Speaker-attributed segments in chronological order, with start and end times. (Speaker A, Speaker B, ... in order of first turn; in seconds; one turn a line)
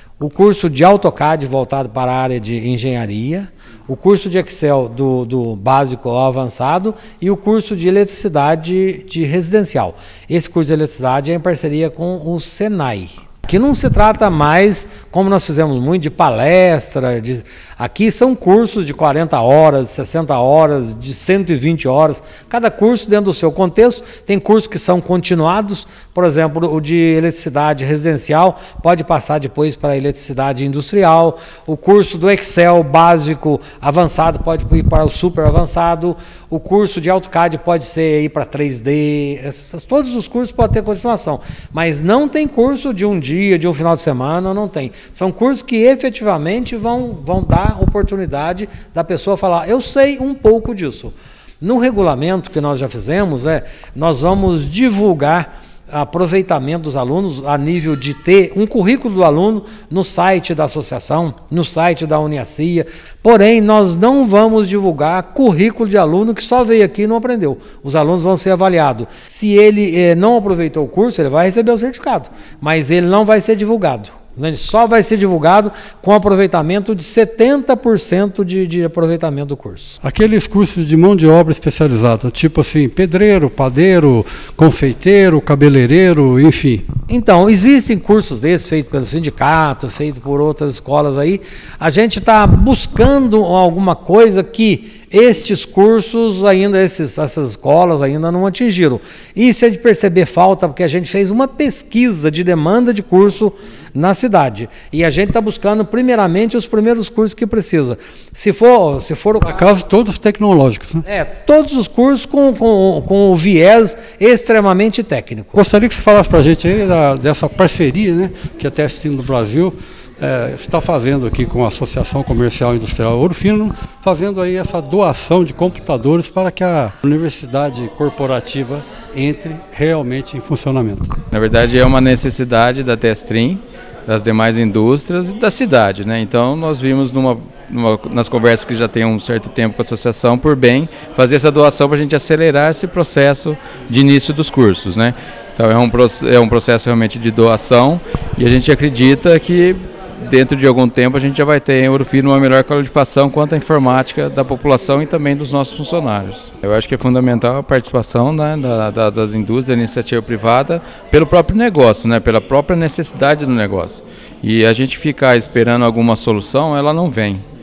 Speaker A: 0.2-80.0
Speaker B: 80.0-86.9
Speaker A: 87.1-109.6
Speaker B: 109.6-111.0
Speaker A: 111.0-115.6
Speaker B: 115.6-131.1
Speaker C: 131.3-167.4